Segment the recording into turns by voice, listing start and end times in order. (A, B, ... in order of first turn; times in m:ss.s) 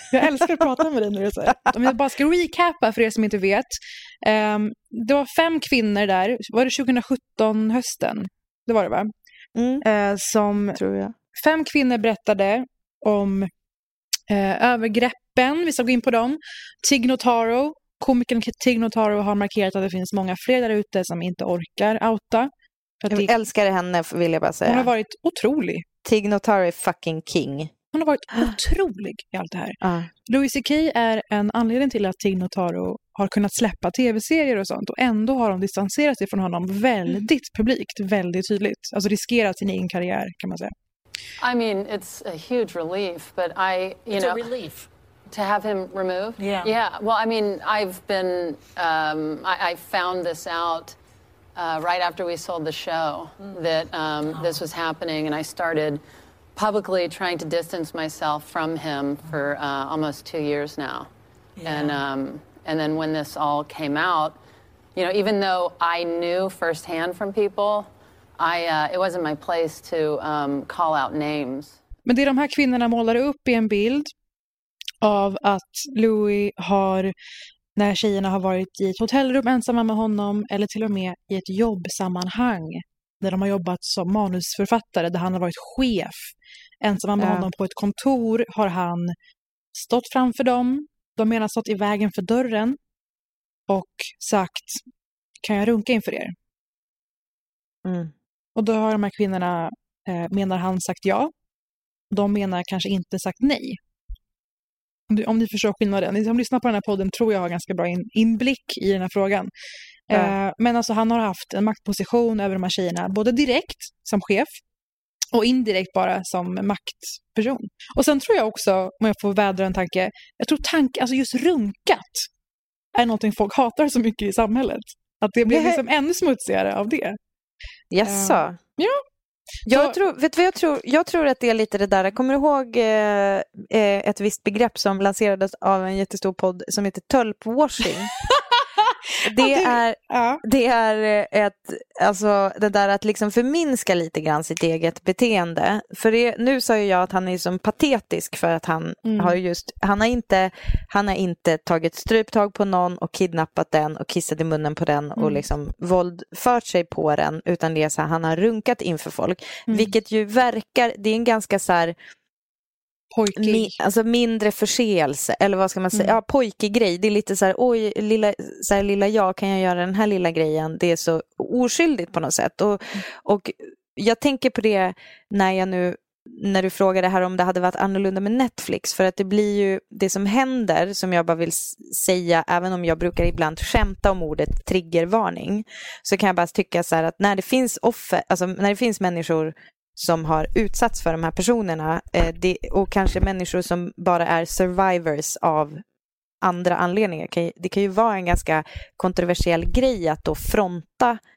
0:00.1-0:09.1 A
0:09.6-0:09.8 B
0:09.8-0:10.8 A
0:10.7-0:11.1 B
0:11.3-0:13.5 A
0:14.3-0:22.5 A
0:23.0-0:23.3 A
0:23.1-0:24.9 B
0:24.6-0:25.8 A
0:26.0-0:27.7 B
0:27.9-0:29.8 A
0:29.8-0:30.1 B
0:30.3-0:40.7 A
0:41.4-0:44.8 C
0:45.3-0:51.0 C
0:51.5-0:56.0 C
0:56.5-1:04.4 C
1:04.9-1:11.8 C
1:12.0-1:14.1 A
1:15.0-1:17.1 A
1:17.8-1:29.1 A
1:27.2-1:27.5 B
1:29.7-1:32.8 A
1:33.7-1:34.8 A
1:35.4-1:36.3 A
1:37.8-1:38.1 B
1:38.6-1:41.3 A
1:42.1-1:43.8 A
1:45.1-1:49.5 A
1:50.1-1:54.5 A
1:55.3-2:02.3 A
2:02.9-2:07.2 A
2:05.4-2:05.8 B
2:07.9-2:08.6 B
2:08.0-2:09.0 A
2:09.6-2:10.0 A
2:09.7-2:18.1 B
2:19.2-2:42.0 B
2:19.4-2:20.4 A
2:29.0-2:29.4 A
2:35.2-2:35.4 A
2:43.1-2:43.7 A
2:43.4-3:15.8 B
3:16.4-3:21.2 B